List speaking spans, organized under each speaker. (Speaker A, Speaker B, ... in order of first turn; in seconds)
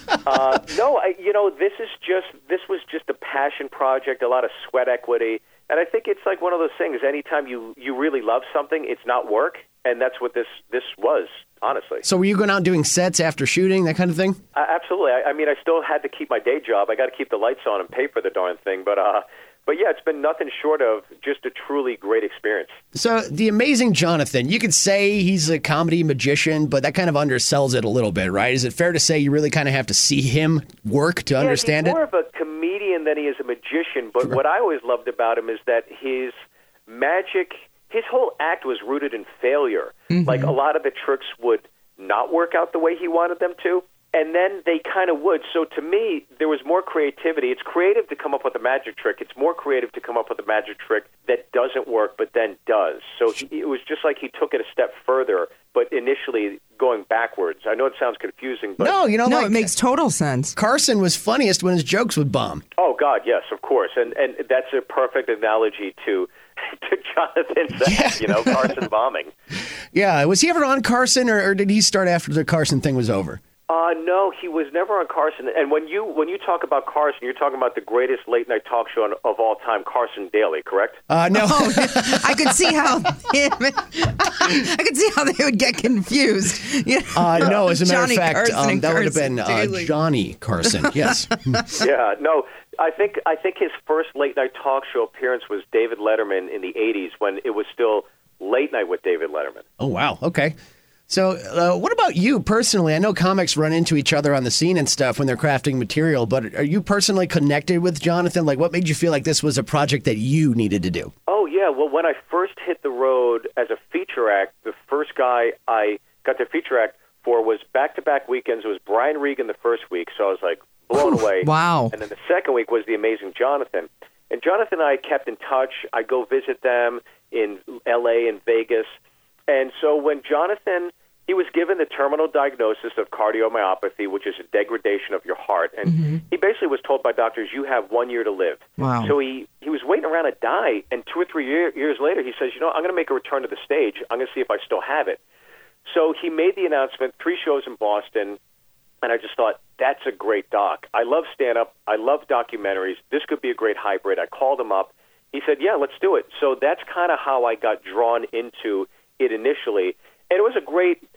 Speaker A: 0.2-12.0, 14.5-22.8, 31.4-36.3, 36.9-59.0, 62.8-69.3, 73.7-81.0, 91.8-99.6, 111.3-128.9, 129.5-145.2, 145.8-148.4, 149.0-161.0
Speaker B: 12.0-14.4, 22.9-32.0, 58.8-59.7, 60.5-62.6, 67.8-68.8, 69.9-73.4, 81.1-82.8, 87.1-91.6, 99.8-100.5, 101.1-111.1
Speaker C: 40.1-40.5, 59.2-60.5, 81.3-89.9, 90.8-91.5, 121.0-121.9, 135.9-136.2, 138.8-139.1